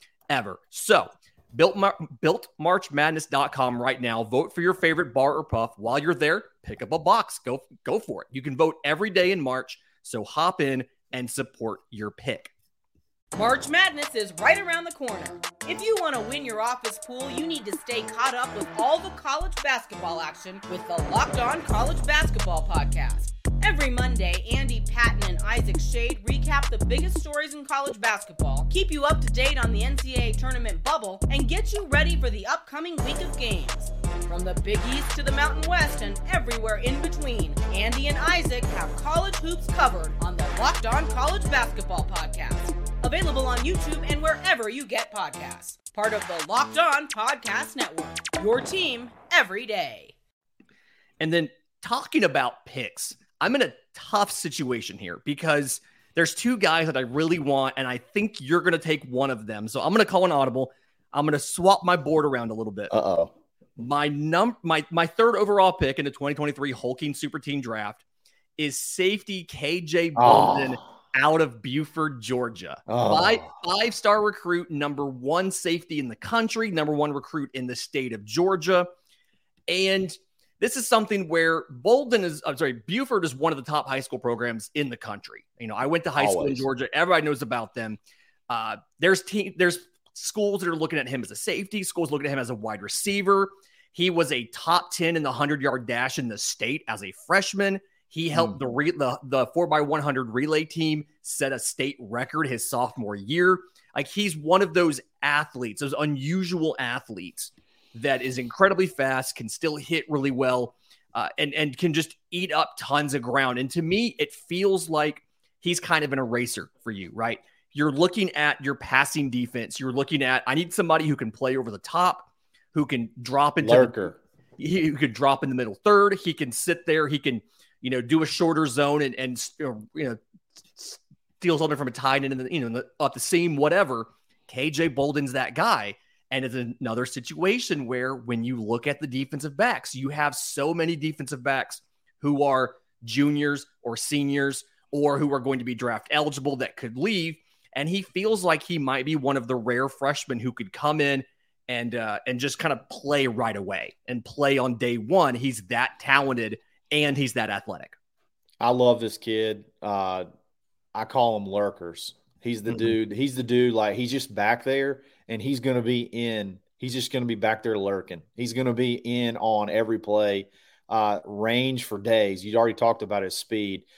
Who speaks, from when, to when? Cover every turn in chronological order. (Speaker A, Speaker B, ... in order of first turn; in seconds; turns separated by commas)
Speaker A: 0.3-12.5, Speaker B: 13.3-50.1, Speaker A: 51.2-62.9, Speaker C: 62.9-63.3, Speaker A: 63.8-68.0, Speaker A: 68.6-78.9, Speaker C: 70.2-70.8, Speaker C: 72.9-73.5, Speaker A: 79.7-88.0, Speaker C: 86.2-86.7, Speaker A: 88.5-130.2, Speaker C: 123.6-124.2, Speaker A: 130.8-157.9, Speaker C: 158.6-160.2, Speaker C: 160.9-173.9